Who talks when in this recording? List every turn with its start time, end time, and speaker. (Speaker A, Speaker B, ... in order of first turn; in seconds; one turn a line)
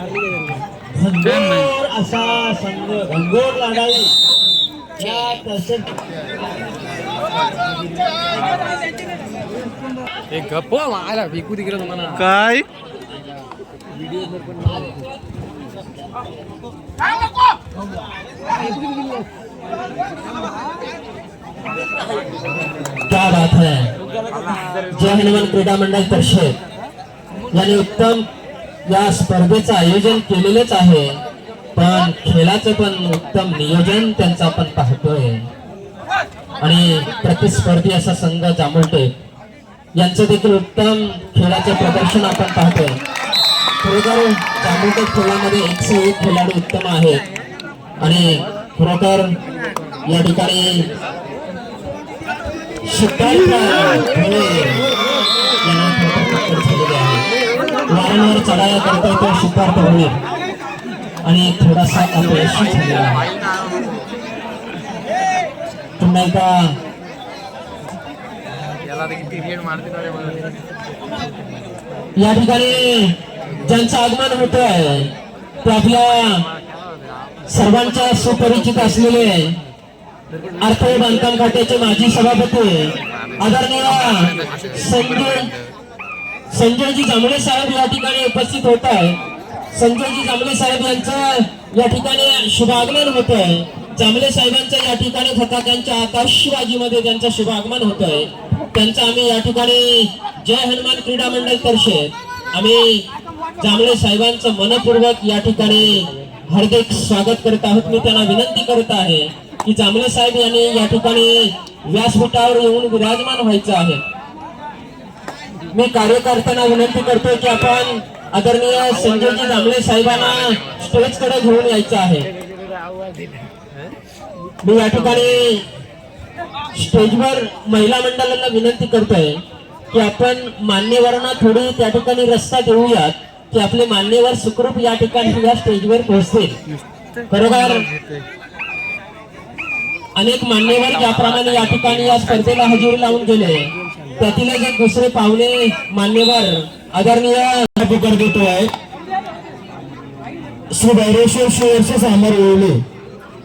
Speaker A: 1.0-4.1
Speaker B: 1.2-1.7
Speaker A: 5.0-5.9
Speaker C: 10.3-12.2
Speaker B: 12.1-12.7
Speaker D: 23.1-23.9
Speaker D: 24.9-26.6
Speaker D: 27.5-28.2
Speaker D: 28.9-31.2
Speaker D: 31.8-35.5
Speaker D: 36.6-39.1
Speaker D: 40.0-43.0
Speaker D: 43.8-47.2
Speaker D: 48.0-49.4
Speaker D: 50.1-50.9
Speaker D: 52.9-54.8
Speaker D: 55.6-57.2
Speaker D: 57.9-60.2
Speaker D: 61.2-63.2
Speaker C: 62.2-64.0
Speaker D: 66.0-66.8
Speaker C: 68.8-70.5
Speaker D: 72.2-75.1
Speaker D: 75.6-76.4
Speaker C: 76.3-79.2
Speaker D: 77.5-79.5
Speaker D: 80.6-85.4
Speaker C: 83.1-85.7
Speaker D: 86.5-89.2
Speaker D: 89.7-103.1
Speaker D: 103.6-114.0
Speaker D: 115.7-122.3
Speaker C: 118.9-120.8
Speaker D: 124.6-125.7
Speaker D: 126.8-136.6
Speaker B: 136.7-138.2
Speaker D: 137.3-137.8
Speaker D: 140.2-147.7
Speaker C: 140.6-142.8
Speaker A: 147.8-148.7
Speaker A: 150.7-152.8